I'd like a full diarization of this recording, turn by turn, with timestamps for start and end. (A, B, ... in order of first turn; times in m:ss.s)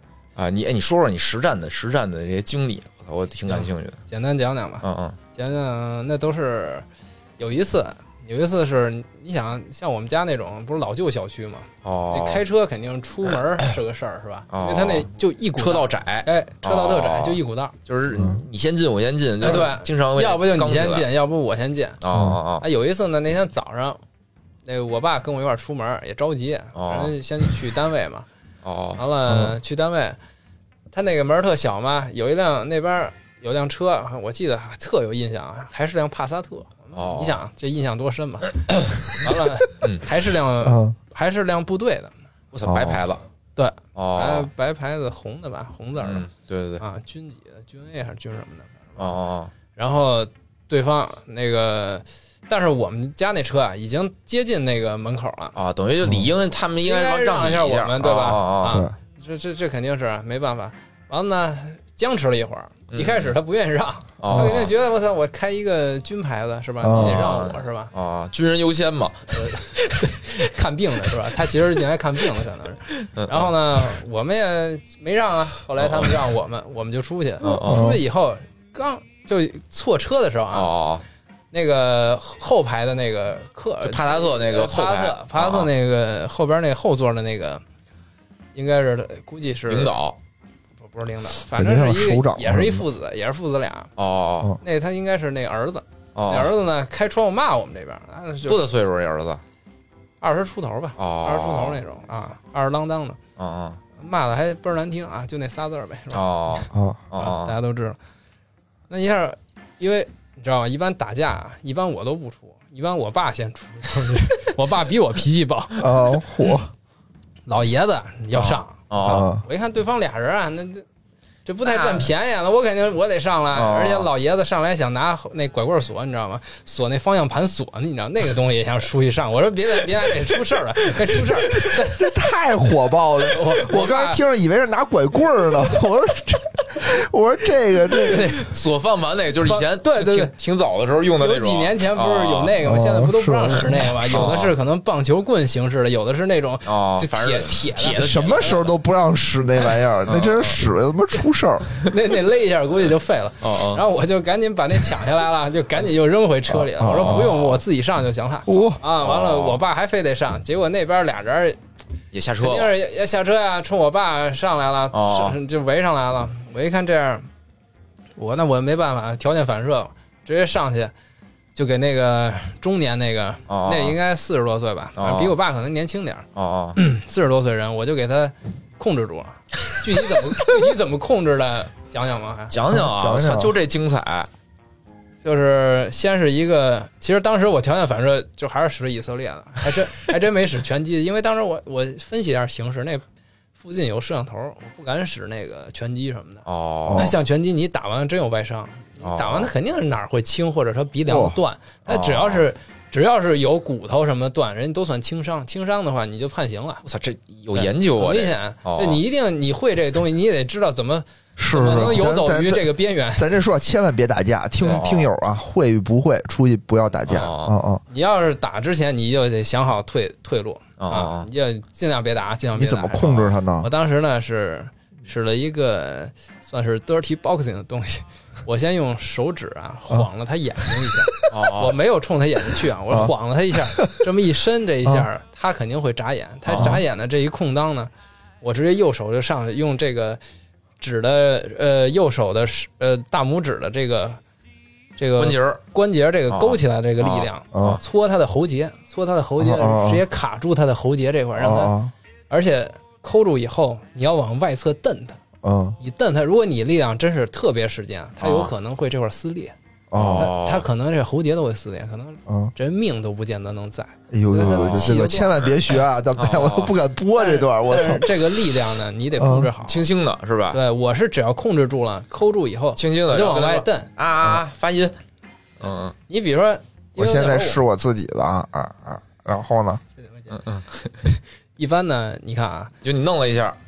0:00.4-0:04.0 A
0:03.5-0:06.9 B
0:04.8-0:05.2 A
0:07.4-0:17.8 B
0:11.8-0:12.4 A
0:14.5-0:21.1 A
0:18.1-0:18.4 C
0:19.4-0:22.0 B
0:22.0-0:22.7 A
0:22.1-0:22.4 C
0:22.6-0:24.0 B
0:24.6-0:28.3 B
0:26.8-0:27.1 A
0:28.6-0:29.0 A
0:29.0-0:30.2 B
0:29.3-0:29.6 C
0:30.9-0:42.1 B
0:37.0-0:37.4 A
0:39.8-0:40.1 A
0:40.6-0:41.0 C
0:42.5-0:43.2 A
0:42.6-0:43.0 C
0:43.6-0:46.3 B
0:44.0-0:44.5 A
0:46.0-0:46.8 A
0:46.8-0:49.1 B
0:49.0-0:49.5 A
0:49.7-0:55.6 B
0:55.6-0:58.8 A
0:56.8-1:07.9 B
0:58.7-0:58.9 C
1:02.9-1:03.4 A
1:04.2-1:04.7 A
1:04.3-1:04.6 C
1:06.8-1:07.3 C
1:06.9-1:09.6 A
1:09.3-1:20.7 B
1:13.2-1:13.5 A
1:15.8-1:16.2 A
1:17.4-1:18.0 A
1:17.6-1:18.0 C
1:20.5-1:21.0 A
1:21.5-1:27.6 B
1:23.8-1:25.7 A
1:28.5-1:30.0 B
1:29.7-1:30.2 A
1:30.8-1:33.9 B
1:31.5-1:32.8 C
1:34.0-1:34.6 A
1:34.6-1:38.6 B
1:36.2-1:36.5 A
1:38.5-1:39.4 A
1:40.2-1:43.2 B
1:41.0-1:41.8 A
1:43.4-1:43.8 A
1:44.0-1:48.0 B
1:46.1-1:47.6 A
1:46.7-1:47.0 C
1:48.9-1:56.2 B
1:55.8-1:56.7 C
1:57.5-2:00.8 B
1:58.3-1:59.3 A
1:59.0-1:59.4 C
2:01.5-2:12.1 B
2:01.6-2:02.1 A
2:03.5-2:04.1 A
2:11.8-2:18.4 C
2:13.3-2:14.2 B
2:18.1-2:22.6 A
2:19.4-2:20.3 B
2:21.2-2:28.7 B
2:22.6-2:24.2 C
2:24.1-2:24.6 A
2:26.7-2:28.7 A
2:27.9-2:31.7 C
2:30.1-2:30.6 A
2:31.7-2:41.6 B
2:33.4-2:33.8 A
2:36.5-2:37.4 C
2:37.1-2:37.6 A
2:38.5-2:38.8 C
2:39.0-2:39.6 A
2:42.1-2:42.7 A
2:42.4-2:47.3 B
2:44.9-2:45.4 A
2:48.2-2:50.9 B
2:51.6-3:02.6 B
2:53.5-2:54.0 A
2:55.0-2:55.4 A
2:56.4-2:56.8 A
3:02.5-3:04.3 A
3:02.7-3:03.6 C
3:05.2-3:13.0 B
3:13.6-3:26.8 B
3:16.5-3:17.2 A
3:16.9-3:17.2 C
3:19.0-3:19.5 A
3:21.1-3:21.4 C
3:21.9-3:22.5 A
3:26.8-3:29.0 A
3:27.5-3:33.3 B
3:31.4-3:37.8 C
3:31.8-3:32.0 A
3:34.7-3:35.1 A
3:37.1-3:37.6 A
3:37.9-3:57.9 B
3:40.8-3:41.3 A
3:42.6-3:43.7 C
3:51.3-3:51.8 A
3:56.5-3:56.8 A
3:58.4-4:00.2 B
4:00.8-4:04.2 B
4:05.0-4:11.8 B
4:05.2-4:05.6 A
4:06.3-4:07.8 A
4:07.5-4:07.8 C
4:09.4-4:10.0 C
4:11.4-4:11.9 C
4:12.3-4:15.2 B
4:15.4-4:15.8 C
4:15.8-4:19.6 B
4:18.2-4:18.5 A
4:19.9-4:20.3 C
4:19.9-4:20.7 A
4:20.2-4:25.5 B
4:22.3-4:22.5 C
4:24.1-4:28.4 C
4:24.5-4:25.5 A
4:26.2-4:26.8 A
4:27.2-4:29.8 B
4:29.2-4:29.5 C
4:29.6-4:30.6 A
4:30.5-4:33.9 B
4:32.8-4:35.0 A
4:35.6-4:36.0 A
4:36.1-4:37.6 B
4:37.0-4:39.8 C
4:40.3-4:40.9 A
4:41.0-4:42.7 B
4:42.8-4:43.6 A